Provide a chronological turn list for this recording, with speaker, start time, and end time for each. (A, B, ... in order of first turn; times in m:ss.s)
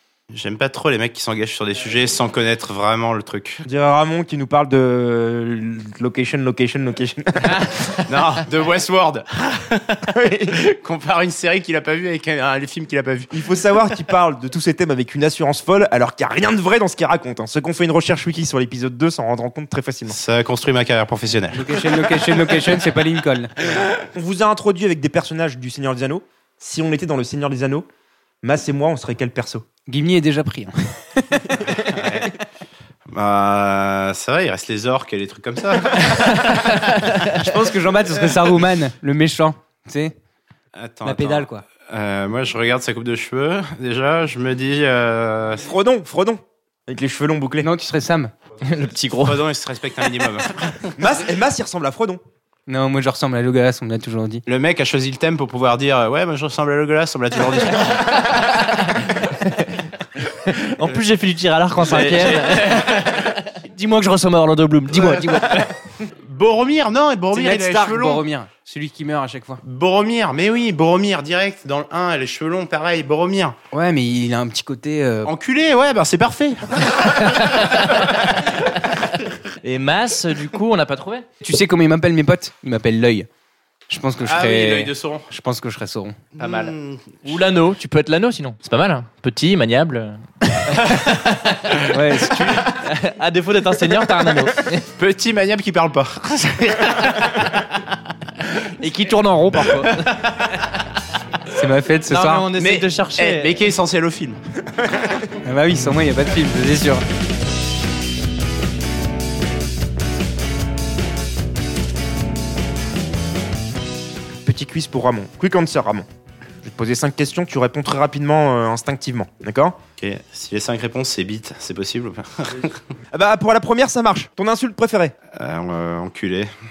0:00.3-0:03.6 A
0:03.6-0:07.7 B
0:08.0-0:13.3 A
0:10.0-0:10.6 B
0:13.3-0:20.2 B
0:20.1-0:22.3 A
0:21.5-0:23.5 C
0:24.0-0:27.9 B
0:28.4-0:29.6 B
0:29.9-0:31.6 C
0:31.9-0:32.3 A
0:33.1-0:36.9 A
0:37.2-0:40.1 C
0:40.7-0:45.6 A
0:41.0-0:41.6 C
0:45.6-0:47.7 B
0:47.6-0:48.3 C
0:48.6-0:49.4 D
0:49.2-0:50.9 A
0:51.0-0:52.2 B
0:52.7-0:54.4 C
0:54.4-0:59.0 A
0:59.2-0:59.7 D
1:00.5-1:05.7 D
1:01.8-1:03.4 A
1:04.9-1:05.5 A
1:06.1-1:08.2 A
1:07.3-1:09.6 C
1:09.6-1:13.6 A
1:13.7-1:15.3 C
1:15.2-1:18.1 A
1:17.1-1:18.5 D
1:19.6-1:21.2 D
1:21.4-1:23.3 C
1:23.9-1:26.2 C
1:24.2-1:25.3 A
1:26.4-1:31.8 D
1:26.4-1:27.3 A
1:31.9-1:32.8 C
1:32.6-1:34.8 D
1:34.9-1:37.8 A
1:38.4-1:38.7 A
1:38.8-1:40.7 D
1:39.7-1:40.5 A
1:41.5-1:42.5 C
1:42.1-1:43.5 D
1:42.6-1:44.4 A
1:45.4-1:47.0 C
1:54.4-1:56.1 B
1:56.6-1:59.8 B
2:00.0-2:02.8 A
2:03.1-2:05.1 B
2:05.3-2:06.5 A